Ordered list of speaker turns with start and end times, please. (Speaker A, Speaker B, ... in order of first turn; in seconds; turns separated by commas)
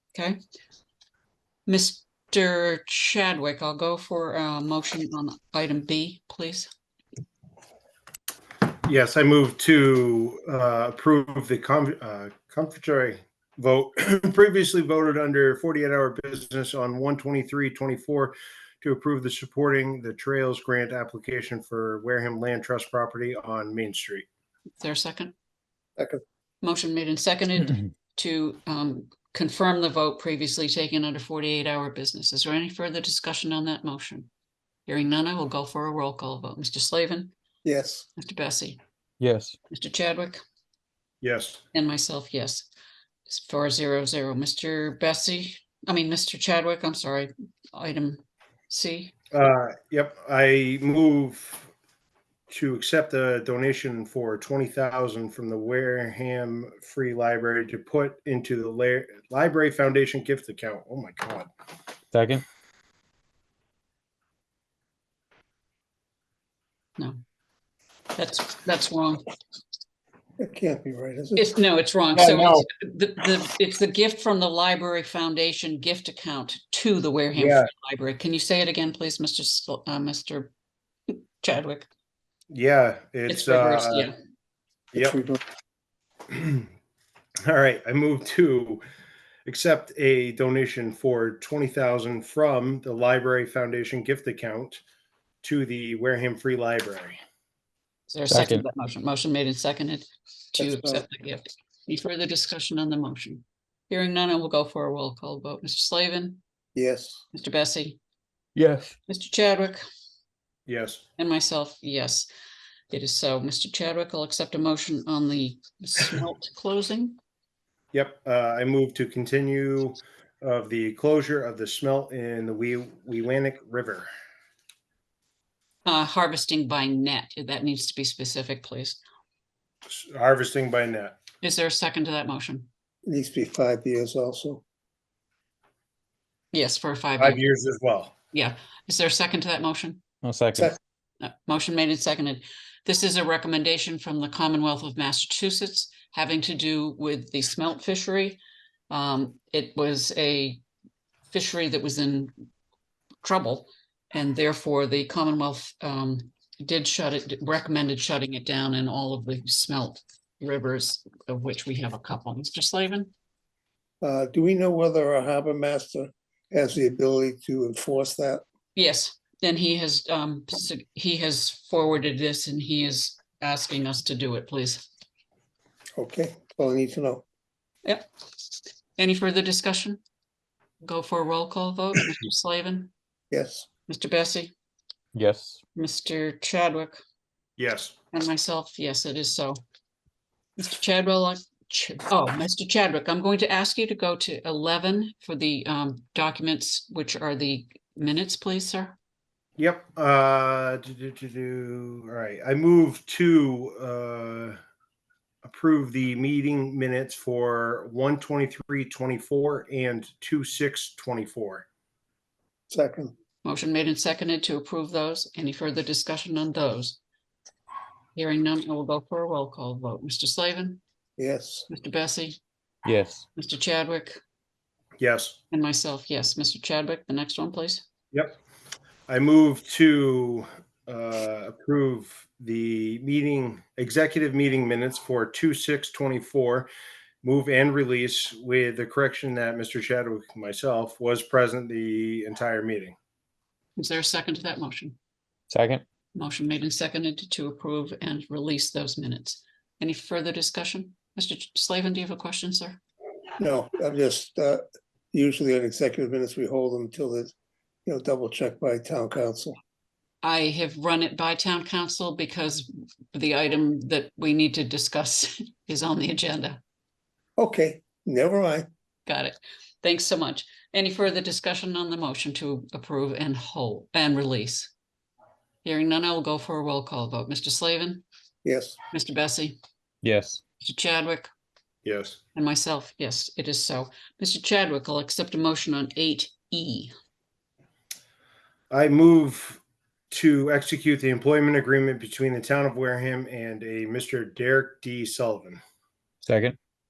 Speaker A: 1.7-6.7, Speaker B: 8.8-24.3, Speaker A: 24.8-25.3, Speaker A: 26.6-34.3, Speaker A: 34.9-37.3, Speaker C: 37.6-38.1, Speaker A: 38.2-38.8, Speaker D: 39.2-39.5, Speaker A: 39.7-40.4, Speaker B: 41.2-41.6, Speaker A: 41.7-42.7, Speaker A: 43.3-49.1, Speaker B: 49.3-51.7, Speaker B: 52.5-61.5, Speaker D: 62.1-62.5, Speaker A: 68.2-69.3, Speaker C: 70.4-71.5, Speaker A: 71.4-80.5, Speaker B: 72.1-72.7, Speaker B: 77.3-77.7, Speaker A: 81.1-81.9, Speaker B: 82.5-84.1, Speaker A: 83.3-84.1, Speaker C: 84.9-85.4, Speaker B: 86.3-86.7, Speaker B: 87.5-88.8, Speaker B: 89.5-94.8, Speaker B: 95.4-97.2, Speaker A: 98.1-106.4, Speaker D: 98.3-98.7, Speaker C: 100.6-101.0, Speaker C: 106.8-107.2, Speaker A: 107.3-108.0, Speaker D: 108.6-108.9, Speaker A: 109.1-109.8, Speaker B: 110.7-111.0, Speaker A: 111.2-112.3, Speaker A: 112.9-117.2, Speaker B: 117.9-124.1, Speaker A: 125.8-129.0, Speaker B: 129.9-131.2, Speaker A: 131.4-132.7, Speaker C: 133.1-134.6, Speaker A: 136.5-137.4, Speaker B: 137.2-138.1, Speaker A: 138.3-140.0, Speaker D: 140.2-140.7, Speaker A: 141.2-150.6, Speaker A: 151.3-152.3, Speaker A: 153.2-163.1, Speaker C: 164.0-168.4, Speaker A: 168.8-174.9, Speaker C: 176.0-177.2, Speaker A: 179.0-180.0, Speaker A: 180.8-182.9, Speaker C: 183.3-183.7, Speaker A: 183.9-184.5, Speaker D: 185.2-185.6, Speaker A: 185.8-187.0, Speaker B: 187.6-188.0, Speaker A: 188.1-189.6, Speaker A: 190.6-199.0, Speaker B: 199.6-204.6, Speaker B: 205.4-211.7, Speaker C: 212.7-213.1, Speaker A: 213.4-217.0, Speaker A: 218.2-220.8, Speaker C: 221.2-221.7, Speaker A: 221.7-222.4, Speaker D: 222.8-223.2, Speaker A: 223.3-224.2, Speaker B: 225.0-225.4, Speaker A: 225.5-227.8, Speaker B: 228.1-228.4, Speaker B: 229.1-236.7, Speaker B: 237.2-243.0, Speaker A: 243.8-245.0, Speaker D: 245.5-245.8, Speaker A: 246.2-252.8, Speaker C: 253.4-257.3, Speaker C: 257.9-259.6, Speaker A: 260.2-266.6, Speaker C: 267.4-268.7, Speaker A: 269.1-274.7, Speaker A: 275.6-278.0, Speaker C: 278.4-278.8, Speaker A: 278.9-279.6, Speaker D: 280.0-280.4, Speaker A: 280.6-281.3, Speaker B: 281.9-282.2, Speaker A: 282.4-286.9, Speaker B: 288.7-295.6, Speaker D: 296.2-296.6